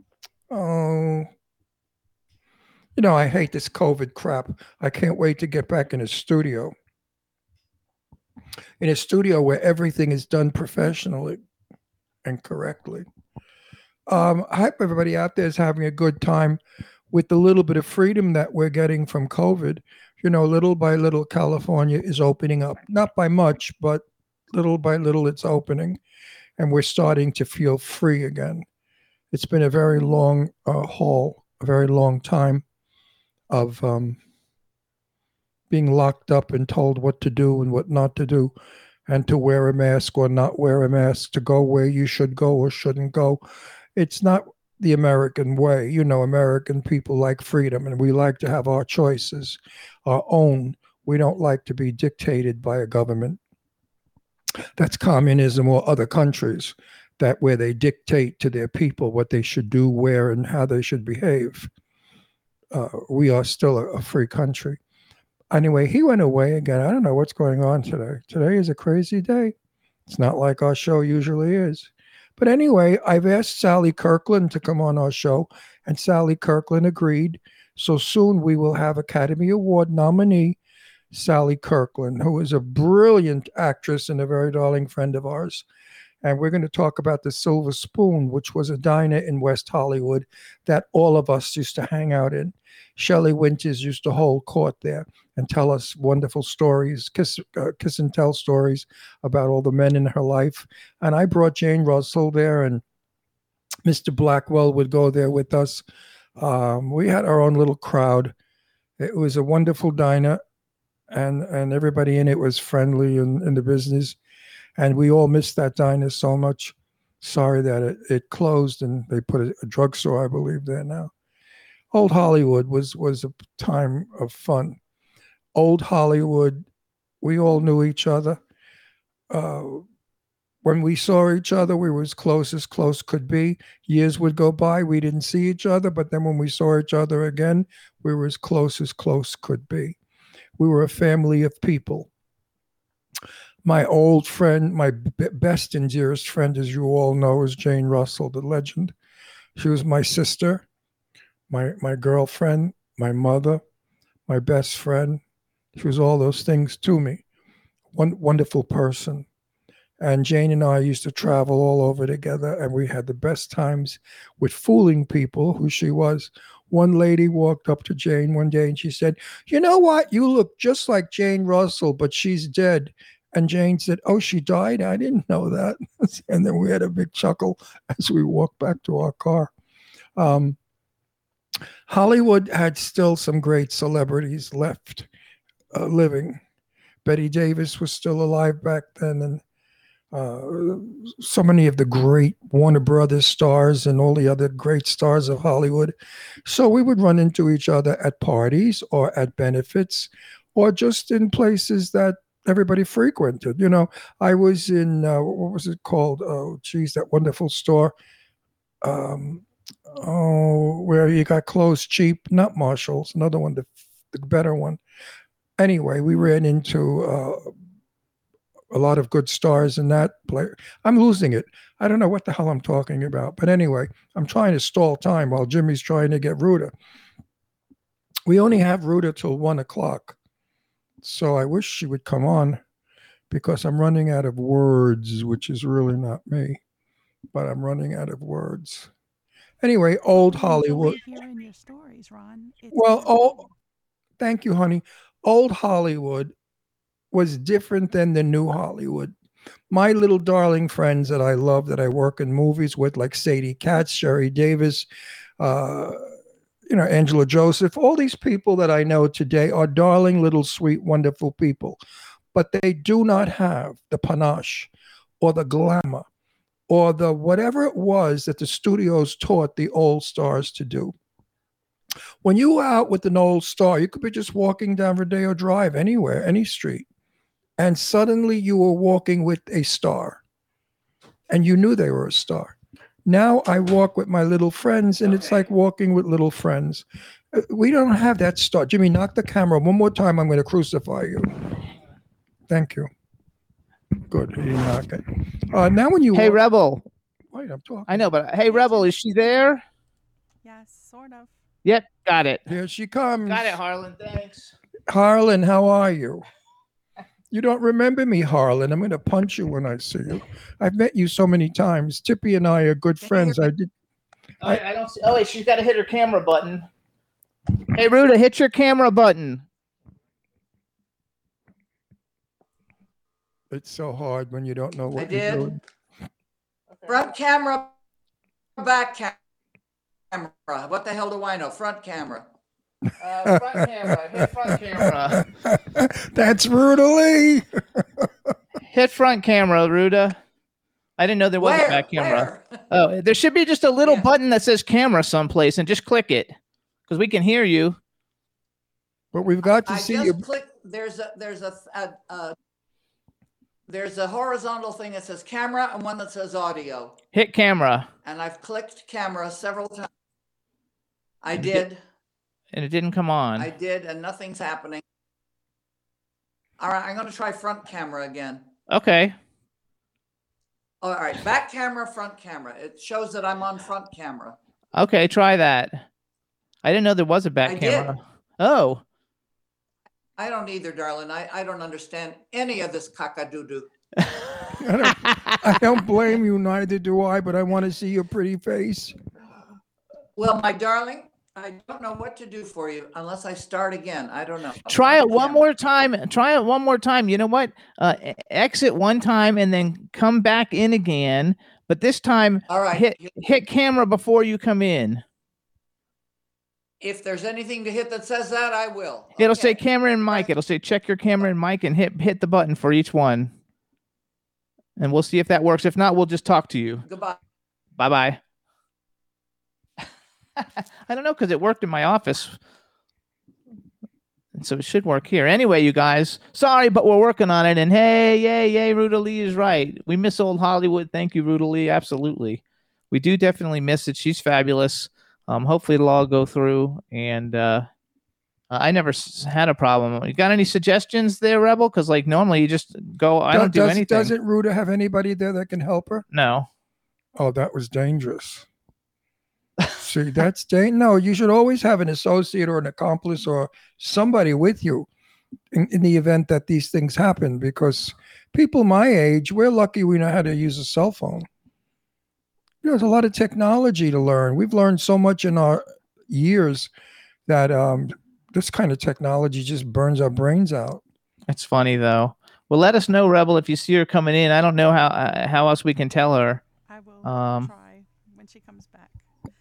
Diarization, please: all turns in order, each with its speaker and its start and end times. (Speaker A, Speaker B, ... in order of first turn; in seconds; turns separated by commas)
Speaker A: 0.5-1.3, Speaker A: 3.0-6.7, Speaker A: 8.8-11.4, Speaker A: 12.2-13.1, Speaker A: 14.1-16.6, Speaker A: 17.1-26.0, Speaker A: 26.6-28.6, Speaker A: 29.3-32.6, Speaker A: 33.5-34.2, Speaker A: 35.7-38.5, Speaker A: 39.1-43.4, Speaker A: 44.0-53.4, Speaker A: 54.8-61.7, Speaker A: 62.7-64.8, Speaker A: 65.5-69.5, Speaker A: 70.1-80.6, Speaker A: 81.1-85.7, Speaker A: 86.2-102.8, Speaker A: 103.8-105.8, Speaker A: 106.4-108.3, Speaker A: 109.0-110.4, Speaker A: 111.1-114.2, Speaker A: 114.8-121.1, Speaker A: 121.9-124.8, Speaker A: 125.5-126.7, Speaker A: 127.2-128.4, Speaker A: 129.3-129.8, Speaker A: 130.6-140.0, Speaker A: 140.6-142.1, Speaker A: 143.6-148.9, Speaker A: 149.6-150.7, Speaker A: 151.5-153.6, Speaker A: 154.3-155.2, Speaker A: 155.8-157.2, Speaker A: 157.9-159.3, Speaker A: 160.0-179.5, Speaker A: 180.2-180.6, Speaker A: 181.9-185.1, Speaker A: 185.7-186.4, Speaker A: 187.1-189.4, Speaker A: 190.1-207.9, Speaker A: 208.8-214.8, Speaker A: 215.6-217.5, Speaker A: 218.7-226.7, Speaker A: 228.3-230.2, Speaker A: 231.0-232.6, Speaker A: 233.3-236.6, Speaker A: 237.3-238.9, Speaker A: 239.6-241.0, Speaker B: 240.1-243.5, Speaker A: 242.7-243.5, Speaker A: 244.2-246.3, Speaker A: 247.1-249.1, Speaker A: 249.7-254.9, Speaker A: 255.4-256.1, Speaker A: 256.7-261.8, Speaker A: 262.3-266.1, Speaker A: 266.7-270.9, Speaker A: 272.2-276.9, Speaker A: 277.6-280.2, Speaker A: 281.3-282.6, Speaker A: 283.1-291.5, Speaker A: 292.5-292.9, Speaker A: 294.1-296.4, Speaker C: 296.1-296.9, Speaker A: 297.3-298.1, Speaker C: 297.9-299.6, Speaker B: 300.4-301.3, Speaker C: 301.6-302.4, Speaker A: 302.5-303.6, Speaker C: 303.3-304.5, Speaker A: 304.9-306.2, Speaker A: 307.3-313.7, Speaker D: 313.0-313.5, Speaker C: 314.4-316.7, Speaker C: 317.6-319.4, Speaker A: 323.5-325.6, Speaker D: 325.0-325.5, Speaker C: 326.7-327.0, Speaker D: 326.9-327.7, Speaker D: 328.6-329.2, Speaker D: 330.1-332.2, Speaker C: 333.0-335.3, Speaker A: 333.2-338.3, Speaker C: 338.6-340.2, Speaker C: 341.0-346.4, Speaker D: 341.4-342.6, Speaker C: 346.9-347.8, Speaker A: 349.1-350.2, Speaker D: 349.7-352.4, Speaker D: 353.7-356.9, Speaker C: 357.1-357.9, Speaker D: 358.0-359.9, Speaker D: 361.2-361.8, Speaker C: 362.5-363.5, Speaker D: 363.4-364.8, Speaker D: 366.6-368.4, Speaker C: 368.7-369.2, Speaker D: 370.8-374.4, Speaker C: 374.8-375.9, Speaker C: 376.6-378.8, Speaker D: 377.4-377.9, Speaker D: 380.2-383.7, Speaker A: 384.6-388.9, Speaker C: 384.9-385.5, Speaker D: 390.2-395.4, Speaker C: 394.7-405.0, Speaker D: 402.5-403.2, Speaker D: 406.8-409.6, Speaker C: 409.2-413.3, Speaker C: 414.8-416.9, Speaker D: 416.9-417.2, Speaker C: 417.8-418.2, Speaker C: 420.4-422.4, Speaker C: 424.4-437.7, Speaker C: 438.5-444.1, Speaker A: 443.3-446.1, Speaker C: 446.1-446.5, Speaker A: 447.2-448.5, Speaker A: 449.8-454.9, Speaker A: 455.5-461.3, Speaker A: 462.6-466.7, Speaker A: 467.3-470.8, Speaker C: 471.3-476.4, Speaker B: 476.7-479.1, Speaker C: 477.0-477.5